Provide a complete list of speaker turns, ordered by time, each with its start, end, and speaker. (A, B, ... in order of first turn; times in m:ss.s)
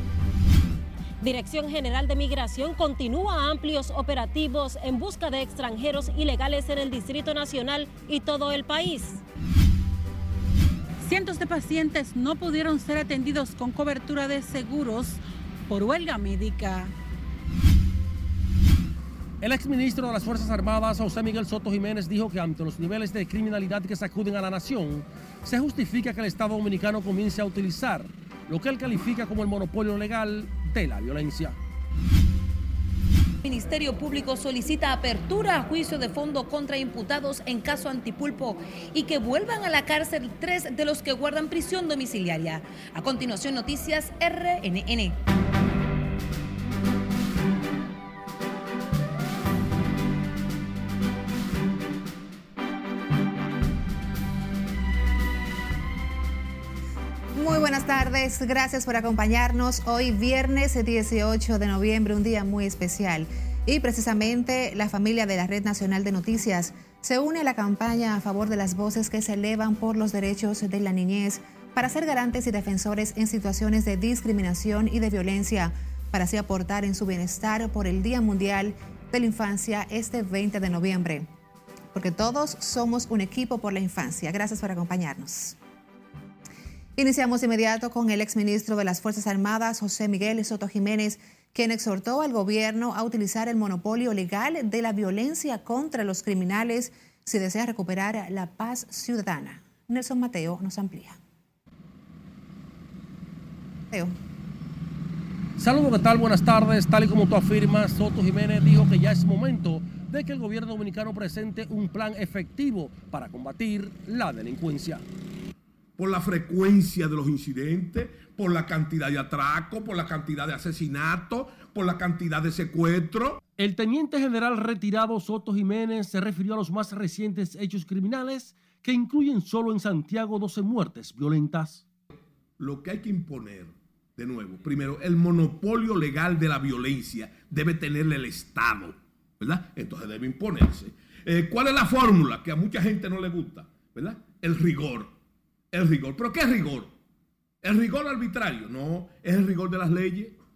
0:01.2-0:09.2 A
0:11.0-0:17.0 B
0:19.4-0:31.6 C
0:33.4-0:45.2 D
0:57.4-1:21.3 E
1:21.9-1:25.6 E
1:27.0-1:41.2 E
1:45.6-1:55.0 C
1:56.0-2:03.4 F
2:03.6-2:11.8 C
2:12.6-2:25.2 F
2:25.7-2:27.0 F
2:27.6-2:30.4 F